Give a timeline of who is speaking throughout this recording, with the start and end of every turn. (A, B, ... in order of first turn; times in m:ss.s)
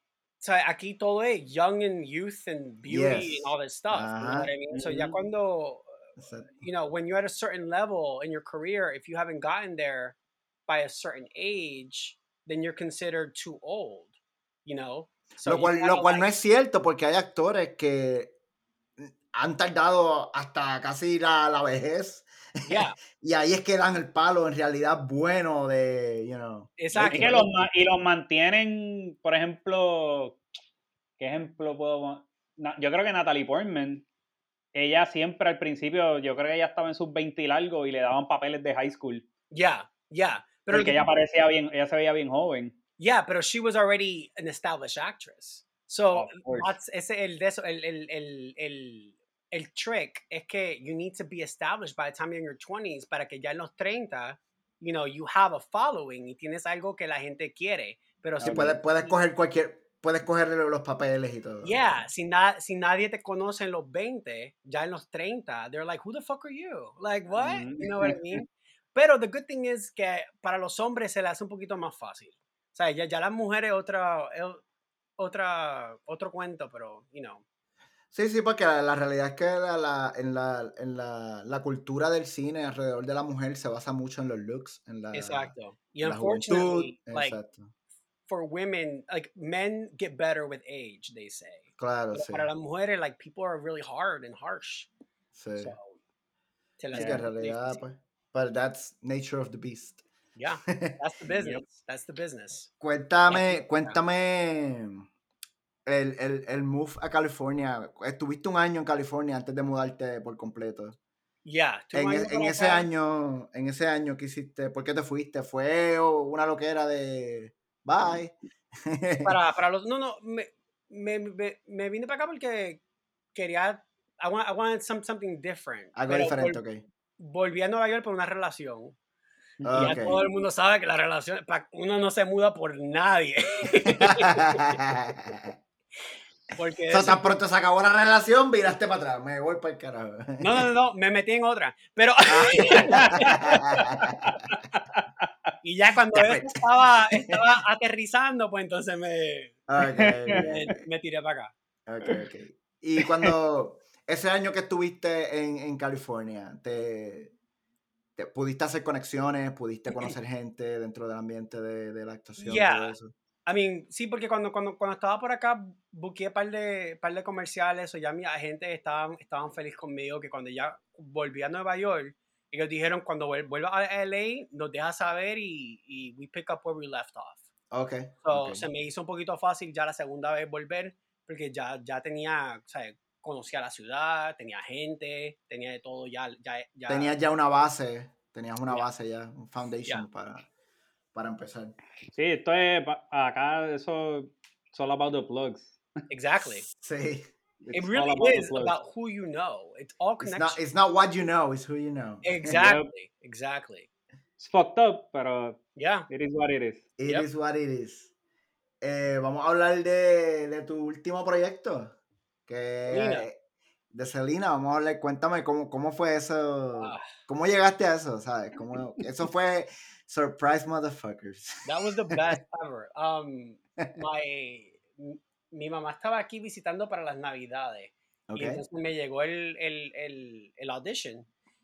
0:00.4-0:06.0 A
0:02.9-0:04.5 B
0:04.7-0:05.2 C
0:06.2-0:06.6 B
0:06.6-0:14.1 A
0:14.6-0:16.3 A
0:15.4-0:18.3 B
0:19.0-0:27.4 B
0:22.7-0:23.0 A
0:26.8-0:27.5 A
0:27.0-0:30.4 C
0:31.2-0:34.0 C
0:34.7-0:39.2 C
0:39.5-0:41.0 A
0:40.7-0:42.7 C
0:43.0-0:59.2 A
0:46.1-0:46.7 C
0:58.4-0:58.7 C
0:58.5-1:01.8 B
1:01.6-1:14.6 A
1:07.4-1:08.4 C
1:15.2-1:17.4 A
1:18.1-1:27.7 B
1:25.1-1:27.4 A
1:28.3-1:34.9 A
1:31.8-1:32.5 B
1:35.3-1:35.7 B
1:35.6-1:36.0 A
1:36.8-1:37.8 A
1:36.9-1:40.0 B
1:36.9-1:37.2 C
1:40.4-1:42.7 A
1:40.7-1:41.6 B
1:42.8-1:45.1 B
1:43.3-1:44.0 A
1:45.9-1:51.0 B
1:51.4-1:52.9 A
1:51.9-1:59.3 B
1:59.2-2:02.8 A
2:03.3-2:06.6 A
2:06.0-2:06.8 B
2:07.2-2:09.0 A
2:09.6-2:10.1 C
2:09.7-2:10.2 B
2:09.8-2:14.8 A
2:14.2-2:15.6 B
2:16.6-2:17.2 A
2:16.9-2:20.6 B
2:20.4-2:23.6 A
2:22.3-2:24.4 B
2:23.8-2:25.0 C
2:25.6-2:29.6 A
2:26.1-2:26.6 B
2:29.7-2:30.7 B
2:30.0-2:30.4 C
2:30.3-2:31.5 A
2:31.9-2:37.3 B
2:38.2-2:43.1 B
2:42.4-2:57.4 A
2:57.7-2:58.7 B
2:58.2-3:07.1 A
3:06.9-3:10.5 B
3:11.1-3:11.7 B
3:12.1-3:15.8 C
3:16.1-3:16.7 A
3:16.7-3:17.7 B
3:17.7-3:20.6 A
3:17.9-3:18.7 C
3:20.2-3:22.6 B
3:22.2-3:23.9 A
3:22.5-3:22.9 C
3:24.4-3:26.9 C
3:25.8-3:26.1 A
3:27.0-3:28.1 B
3:28.8-3:32.0 B
3:32.5-3:33.4 B
3:32.9-3:33.3 A
3:33.9-3:42.1 B
3:36.8-3:37.1 A
3:41.6-3:51.3 A
3:48.3-3:48.6 B